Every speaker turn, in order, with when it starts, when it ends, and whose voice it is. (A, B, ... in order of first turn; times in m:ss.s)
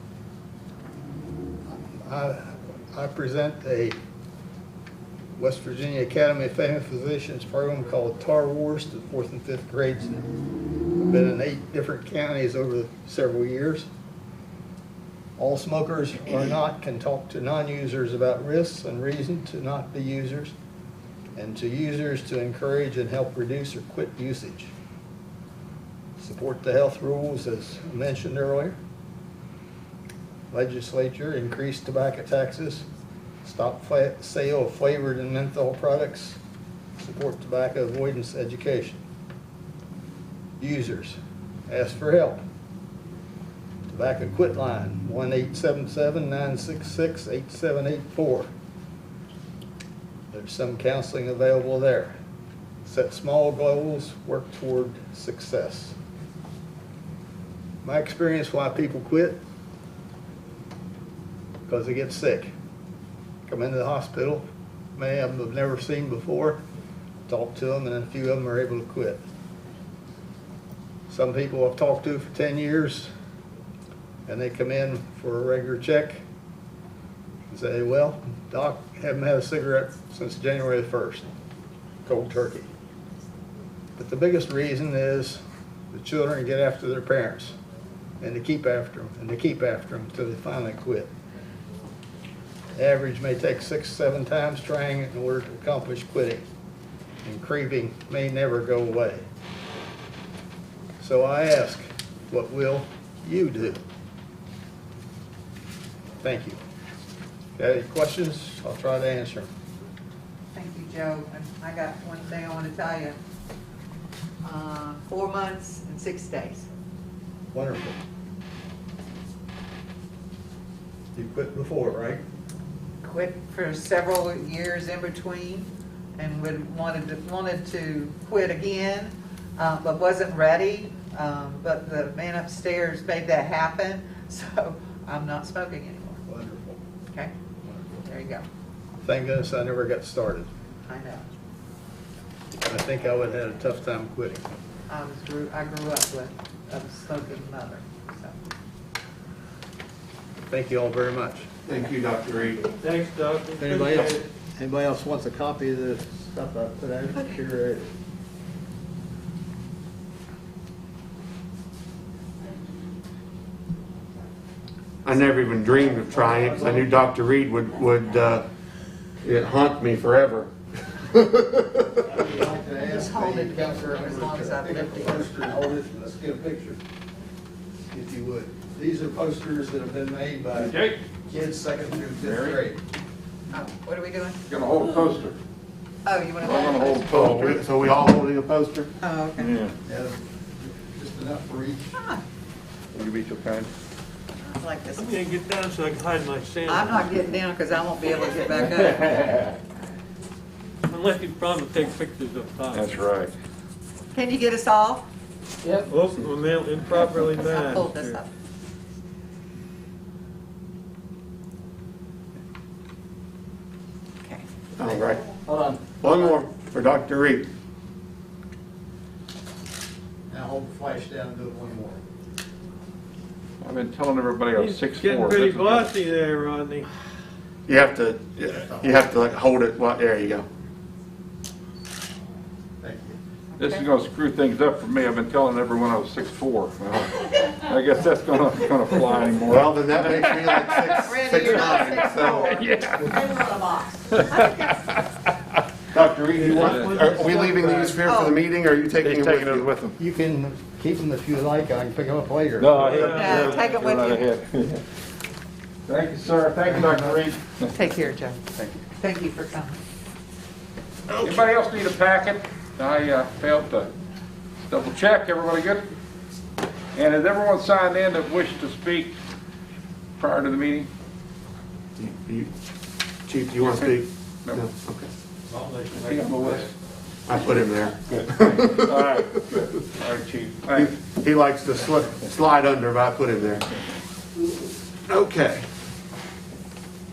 0:01.7-0:03.9 A
0:05.4-0:10.3 A
0:11.0-0:13.9 A
0:15.4-0:20.5 A
0:21.4-0:24.7 A
0:26.2-0:28.8 A
0:30.5-0:32.8 A
0:33.4-0:36.4 A
0:37.0-0:39.0 A
0:40.6-0:41.2 A
0:41.7-0:42.4 A
0:43.9-0:48.5 A
0:50.3-0:52.1 A
0:52.8-0:56.0 A
0:57.8-0:59.4 A
1:01.7-1:02.5 A
1:03.4-1:04.4 A
1:05.0-1:06.6 A
1:07.3-1:09.2 A
1:11.1-1:13.1 A
1:14.3-1:16.2 A
1:17.4-1:21.3 A
1:22.0-1:22.7 A
1:24.0-1:27.5 A
1:28.2-1:31.1 A
1:32.8-1:36.4 A
1:37.2-1:39.2 A
1:41.0-1:43.8 A
1:46.2-1:46.6 A
1:47.6-1:49.5 A
1:50.5-1:53.2 B
1:54.4-1:56.7 B
1:57.5-1:58.0 A
2:01.1-2:02.2 A
2:03.0-2:16.2 B
2:16.3-2:16.8 A
2:17.6-2:18.0 A
2:18.0-2:18.4 B
2:19.0-2:20.5 A
2:20.8-2:21.3 B
2:22.6-2:24.4 A
2:24.9-2:28.4 B
2:30.5-2:31.5 A
2:31.6-2:32.6 C
2:32.8-2:34.2 D
2:33.6-2:37.9 A
2:45.0-2:48.4 C
2:46.1-2:46.9 A
2:49.2-2:51.9 C
2:52.1-2:56.8 A
2:52.7-2:55.3 B
2:57.9-3:02.8 A
3:00.6-3:01.0 E
3:02.2-3:02.6 E
3:03.5-3:04.4 B
3:04.5-3:05.4 E
3:06.0-3:07.6 B
3:06.4-3:07.6 E
3:07.0-3:08.9 C
3:09.0-3:09.5 B
3:09.4-3:09.7 E
3:09.8-3:12.0 A
3:12.9-3:13.7 E
3:14.4-3:15.2 B
3:15.0-3:17.0 D
3:16.6-3:19.5 B
3:20.9-3:22.8 D
3:22.7-3:23.3 E
3:24.1-3:25.0 B
3:25.9-3:28.2 D
3:27.2-3:28.3 B
3:34.8-3:35.2 C
3:34.8-3:35.8 A
3:36.0-3:37.5 C
3:40.3-3:42.0 A
3:43.6-3:46.0 E
3:44.5-3:46.9 D
3:47.7-3:50.5 C
3:48.7-3:49.0 A
3:52.8-3:53.2 A
3:53.6-3:53.8 B
3:53.6-4:03.2 E
3:59.5-4:02.6 C
4:01.0-4:04.8 B
4:04.1-4:05.0 E
4:05.9-4:09.7 C
4:06.4-4:07.9 D
4:06.5-4:06.9 E
4:08.0-4:08.4 B
4:09.0-4:10.0 E
4:10.0-4:13.3 A
4:12.6-4:14.8 E
4:12.8-4:13.5 D
4:12.9-4:14.3 B
4:15.9-4:17.7 E
4:16.6-4:17.2 A
4:17.7-4:18.4 B
4:18.9-4:19.8 B
4:21.2-4:23.9 E
4:24.7-4:25.9 E
4:26.9-4:29.1 E
4:30.2-4:30.9 E
4:32.0-4:32.5 C
4:33.3-4:35.1 C
4:35.9-4:36.7 E
4:37.3-4:39.0 C
4:38.2-4:40.9 E
4:40.7-4:43.7 C
4:45.1-4:45.6 C